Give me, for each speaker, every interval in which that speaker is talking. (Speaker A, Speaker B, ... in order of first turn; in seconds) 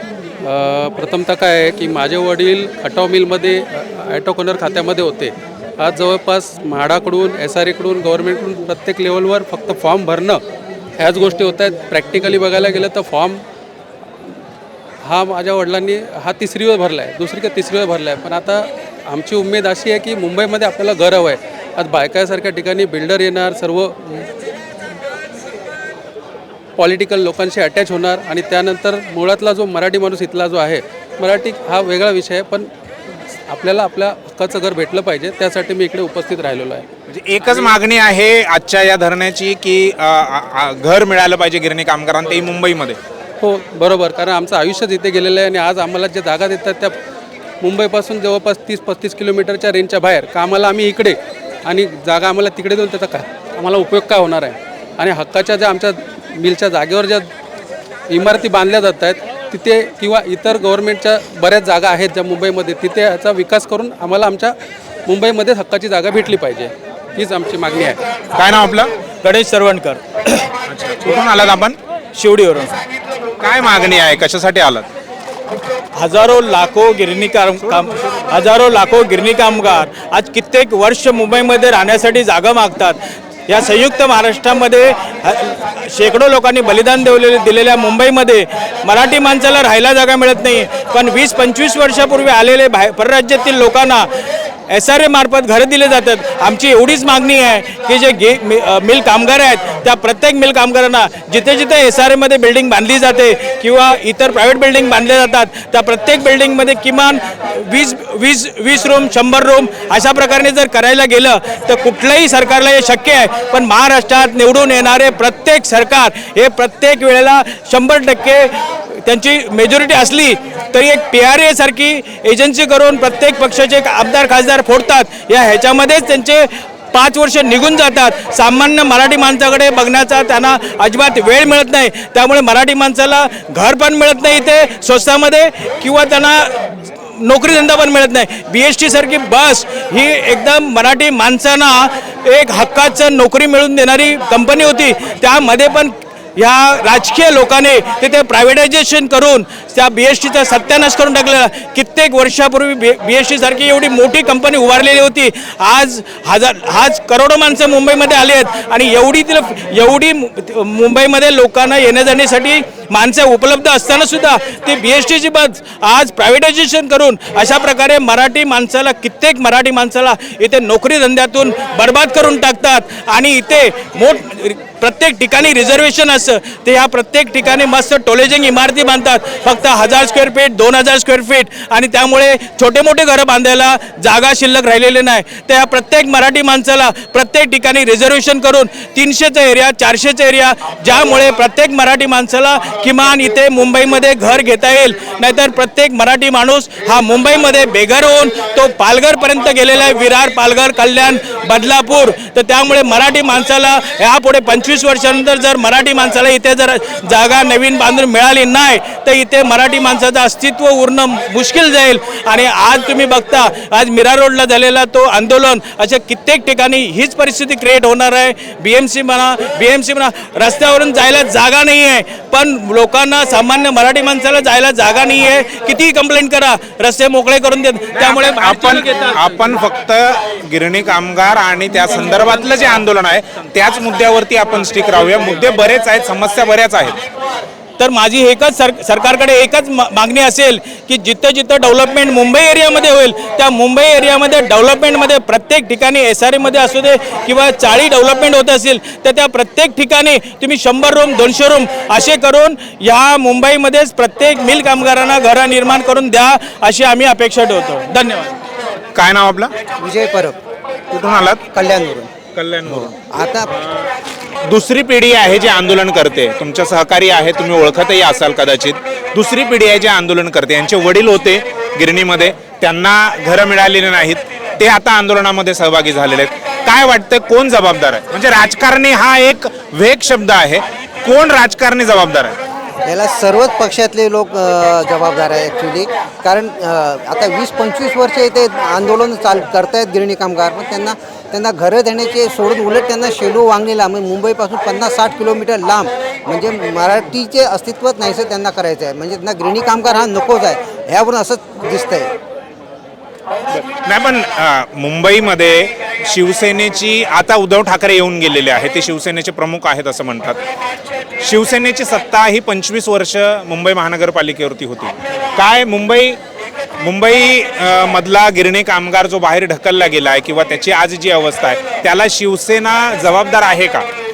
Speaker A: 0.4-10.4, 11.0-13.4, 15.0-24.3, 26.8-32.7, 33.5-36.9, 37.5-37.8, 43.4-47.0, 47.6-57.3, 58.1-64.5, 65.1-68.0
Speaker B: 37.1-43.0, 68.3-68.9, 70.7-71.8, 73.4-74.9, 227.9-237.0, 258.9-259.5, 260.9-261.4, 262.3-262.9, 264.4-282.4, 303.5-310.4, 311.2-316.2, 316.8-323.9
Speaker C: 69.2-70.5, 72.1-72.8, 76.0-94.1, 94.7-229.6, 237.8-258.4
Speaker D: 259.8-260.4, 261.5-262.1, 262.7-263.5, 282.8-302.1